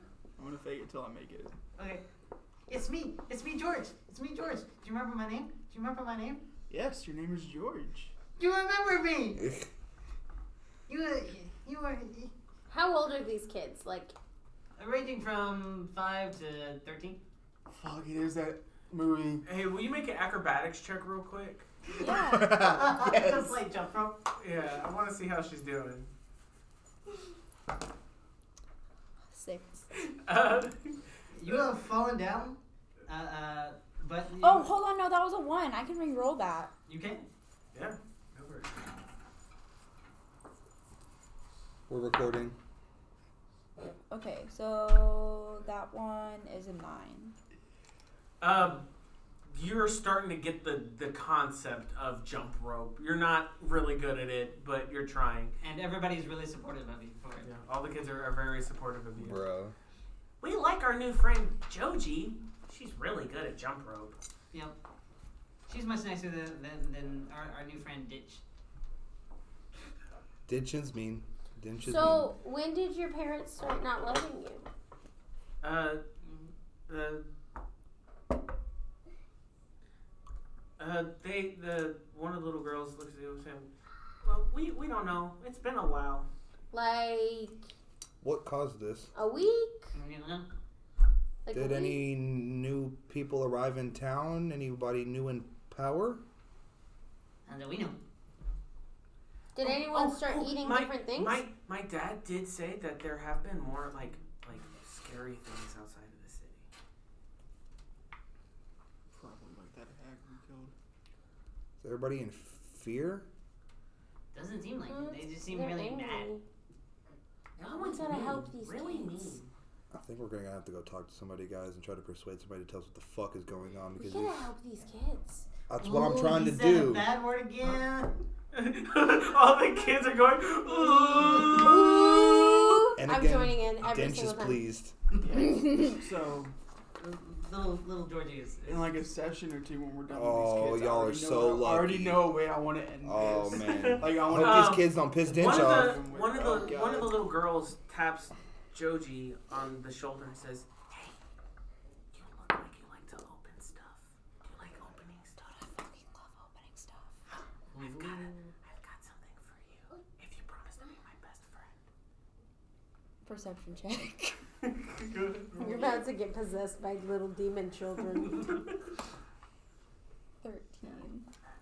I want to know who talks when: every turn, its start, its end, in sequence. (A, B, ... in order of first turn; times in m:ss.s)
0:00.4-0:01.5 A
0:01.8-0:02.0 B
0:02.7-0:06.4 B
0:06.7-0:08.1 A
0:08.4-0:09.4 B
0:09.4-0:09.7 C
0:10.9-0:12.3 B
0:12.7-0:14.1 D
0:14.8-0:17.2 B
0:17.7-0:19.4 A
0:19.4-0:21.7 E
0:22.0-0:22.6 F
0:22.0-0:24.2 B
0:22.3-0:23.6 A
0:24.3-0:26.1 E
0:29.3-0:29.9 F
0:29.9-0:31.6 E
0:31.3-0:34.7 B
0:34.4-0:36.7 F
0:36.9-0:37.2 B
0:37.7-0:38.8 E
0:41.9-0:42.6 C
0:44.1-0:47.3 F
0:48.4-0:48.8 E
0:49.4-0:55.5 E
0:55.6-0:57.5 B
0:57.4-0:59.4 E
0:59.2-0:59.7 C
1:00.4-1:04.2 E
1:05.7-1:08.4 B
1:10.5-1:12.3 C
1:11.8-1:14.6 D
1:15.6-1:16.0 E
1:16.9-1:17.3 E
1:20.8-1:23.7 E
1:24.2-1:26.3 E
1:26.7-1:27.6 D
1:28.2-1:29.1 C
1:29.1-1:29.9 D
1:29.9-1:30.5 B
1:31.4-1:32.0 D
1:31.5-1:36.2 C
1:37.4-1:38.0 B
1:39.5-1:41.4 D
1:39.6-1:46.6 E
1:49.1-1:50.7 A
1:51.8-1:53.2 C
1:54.3-1:56.3 B
1:54.9-1:56.4 D
1:57.6-1:59.4 E
1:57.6-1:59.4 D
1:58.1-1:58.4 B
1:59.9-2:04.4 C
2:04.0-2:05.4 D
2:05.7-2:07.1 C
2:05.8-2:08.2 B
2:08.5-2:12.3 E
2:11.0-2:11.7 B
2:11.4-2:14.6 D
2:13.0-2:14.9 C
2:15.2-2:16.5 A
2:15.6-2:15.9 F
2:17.0-2:19.0 B
2:18.6-2:27.2 A
2:20.1-2:22.4 C
2:23.0-2:26.0 C
2:23.5-2:31.2 E
2:32.1-2:35.5 E
2:35.4-2:37.1 F
2:37.7-2:38.5 B
2:37.8-2:41.8 E
2:43.2-2:44.4 F
2:44.6-2:46.0 E
2:45.6-2:48.8 D
2:50.4-2:51.2 F